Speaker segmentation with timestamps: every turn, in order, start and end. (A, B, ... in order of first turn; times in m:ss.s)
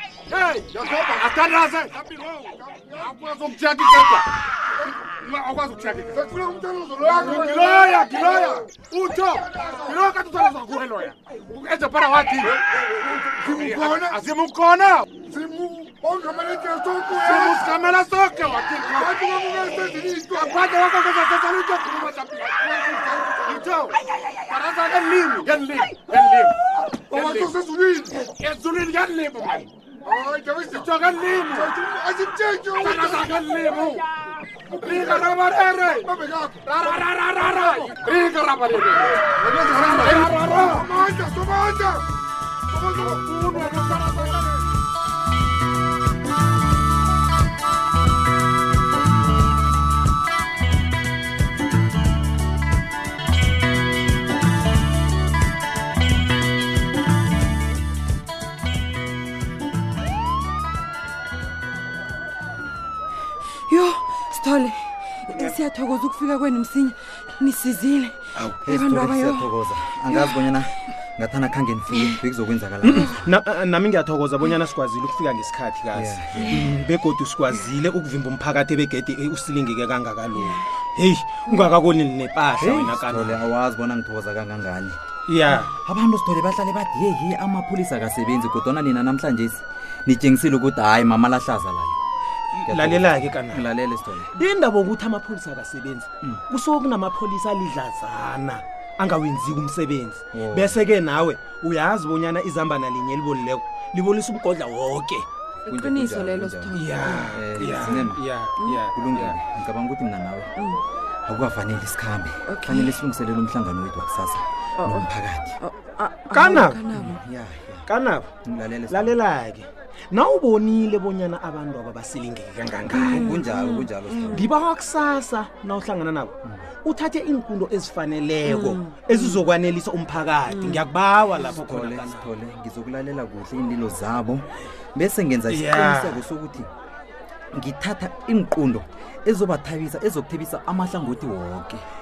0:00.3-0:04.3 A
0:00.8-0:01.2 B
0:02.6-0:03.1 B
0:04.9-0:06.2 A
0:06.1-0:08.7 B
0:07.0-0:12.6 A
0:09.3-0:10.0 B
0:12.4-0:14.2 B
0:13.4-0:15.1 A
0:15.2-0:17.8 B
0:17.1-0:19.2 A
0:18.8-0:20.6 B
0:20.2-0:27.6 A
0:22.9-0:23.6 B
0:27.1-0:28.2 B
0:28.1-0:29.7 A
0:30.0-0:30.9 B
0:30.6-0:31.7 A
0:31.5-0:33.4 B
0:32.8-0:34.1 A
0:34.8-0:41.0 A
0:34.8-0:36.8 B
0:39.1-0:42.0 B
0:42.7-0:43.2 B
0:42.8-0:44.5 A
0:44.0-0:44.6 B
1:03.7-1:09.5 C
1:08.4-1:08.7 D
1:08.6-1:13.3 E
1:12.8-1:23.4 D
1:15.9-1:16.7 E
1:22.6-1:25.0 E
1:25.3-1:25.7 D
1:25.6-1:32.0 E
1:32.5-1:33.6 D
1:32.6-1:34.3 E
1:34.3-1:45.2 D
1:40.3-1:40.8 E
1:45.6-1:47.2 C
1:45.6-1:48.2 E
1:46.7-1:49.4 D
1:48.9-1:50.5 E
1:50.6-1:50.8 C
1:51.2-1:55.6 E
1:52.5-1:52.9 C
1:54.8-1:57.2 C
1:56.3-1:56.8 D
1:56.9-1:57.8 E
1:57.9-1:58.3 D
1:58.4-1:59.1 E
1:58.9-2:03.4 D
2:02.9-2:04.5 E
2:03.1-2:04.3 C
2:04.3-2:06.3 D
2:06.8-2:12.3 D
2:08.4-2:09.3 C
2:10.5-2:10.8 C
2:11.5-2:16.7 E
2:15.5-2:16.2 D
2:17.5-2:21.8 E